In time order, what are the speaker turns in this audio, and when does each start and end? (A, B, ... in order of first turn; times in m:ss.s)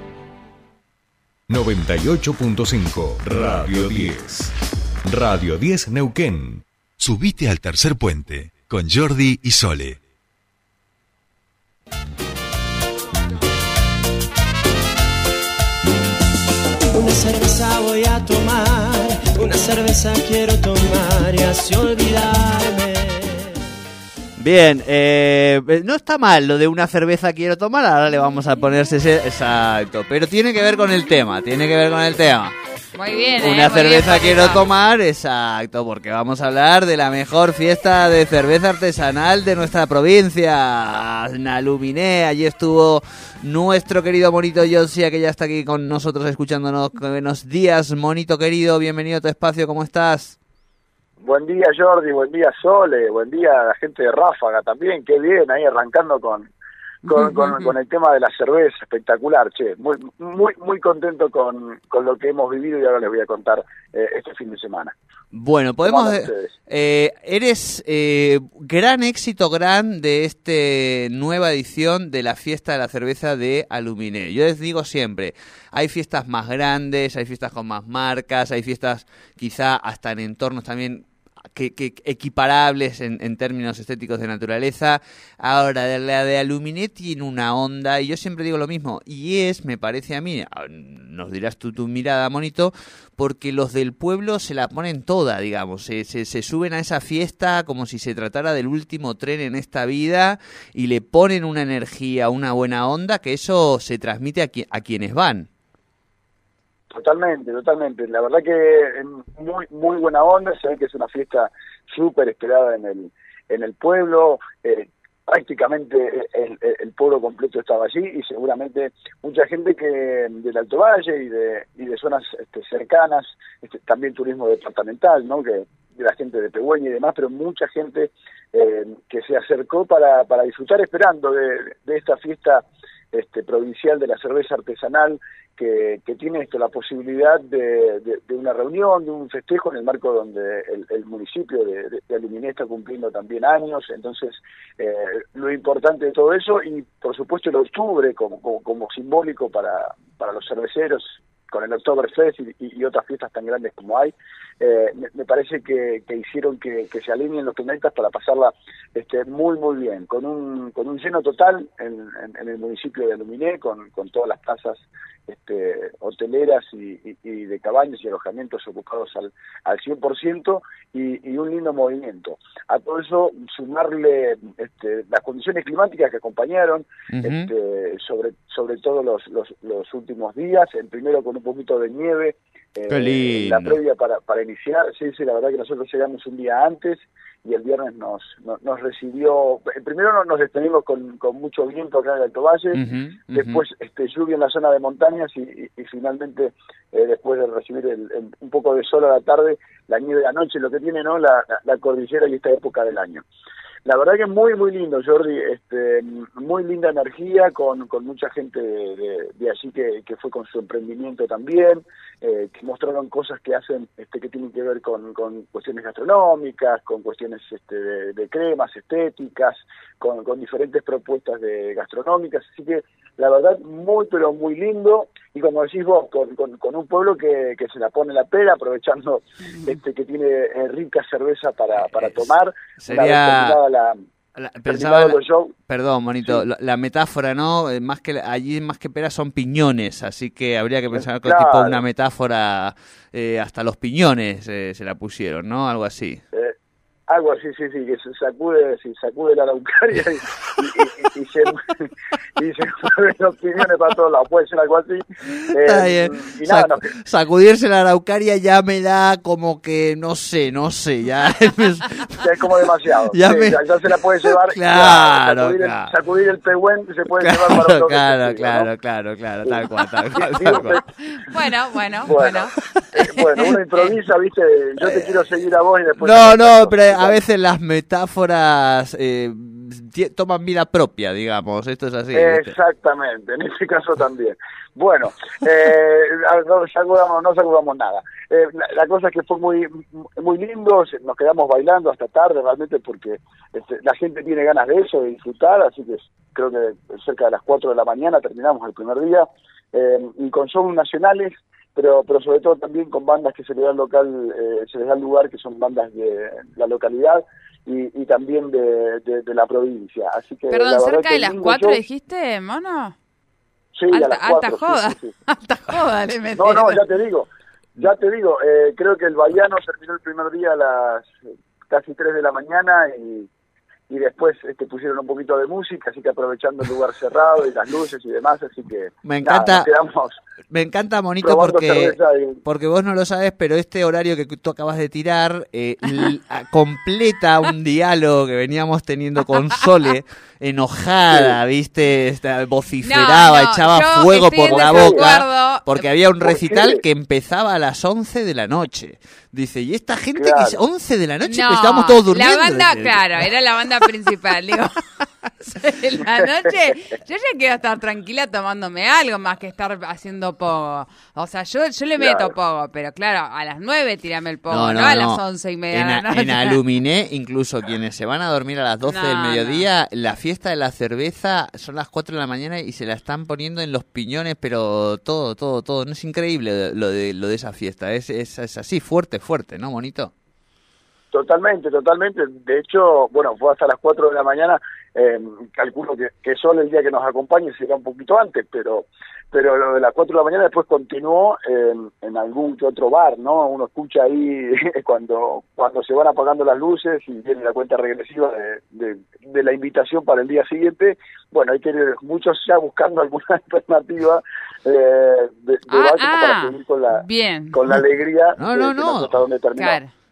0:01.5-0:04.5 A
0:05.1-0:06.6 A
0:07.1-0:10.0 B
0:16.9-0:23.5 C
0:24.4-0:32.5 D
0:32.9-0:34.6 E
0:33.4-0:50.4 D
0:51.2-0:56.5 F
0:57.0-1:04.9 F
0:57.1-0:57.6 E
1:05.3-1:45.5 D
1:05.8-1:06.5 F
1:46.9-3:12.8 F
2:57.1-2:57.5 D
3:02.9-3:03.8 D
3:12.7-3:13.6 D
3:13.3-3:23.2 F
3:23.9-3:54.0 F
3:51.8-3:53.6 D
3:54.4-4:06.2 D
3:54.7-3:55.5 F
4:00.9-4:01.8 F
4:07.1-4:16.8 F
4:15.3-4:22.3 D
4:22.2-4:28.7 F
4:23.1-4:25.9 D
4:27.2-4:30.8 D
4:29.4-4:30.8 F
4:31.0-4:33.9 E
4:32.0-4:32.5 F
4:33.0-4:37.2 F
4:34.8-4:35.5 D
4:36.0-4:42.6 D
4:42.1-5:11.8 F
5:10.5-5:13.0 E
5:13.8-5:15.1 F
5:13.9-5:16.8 E
5:16.4-5:17.3 F
5:17.8-5:21.2 F
5:21.7-5:23.3 F
5:23.9-5:30.2 F
5:29.0-5:29.7 D
5:30.5-5:53.2 D
5:31.2-5:32.4 F
5:41.1-5:41.4 F
5:42.8-5:45.8 E
5:44.5-5:45.1 F
5:46.2-5:46.8 F
5:50.2-5:50.6 F
5:51.2-5:54.8 E
5:55.4-6:06.6 E
6:02.0-6:02.3 F
6:04.5-6:20.1 D
6:08.8-6:09.7 E
6:21.1-6:49.8 F
6:45.7-6:47.6 E
6:48.4-6:49.2 D
6:49.6-6:49.9 E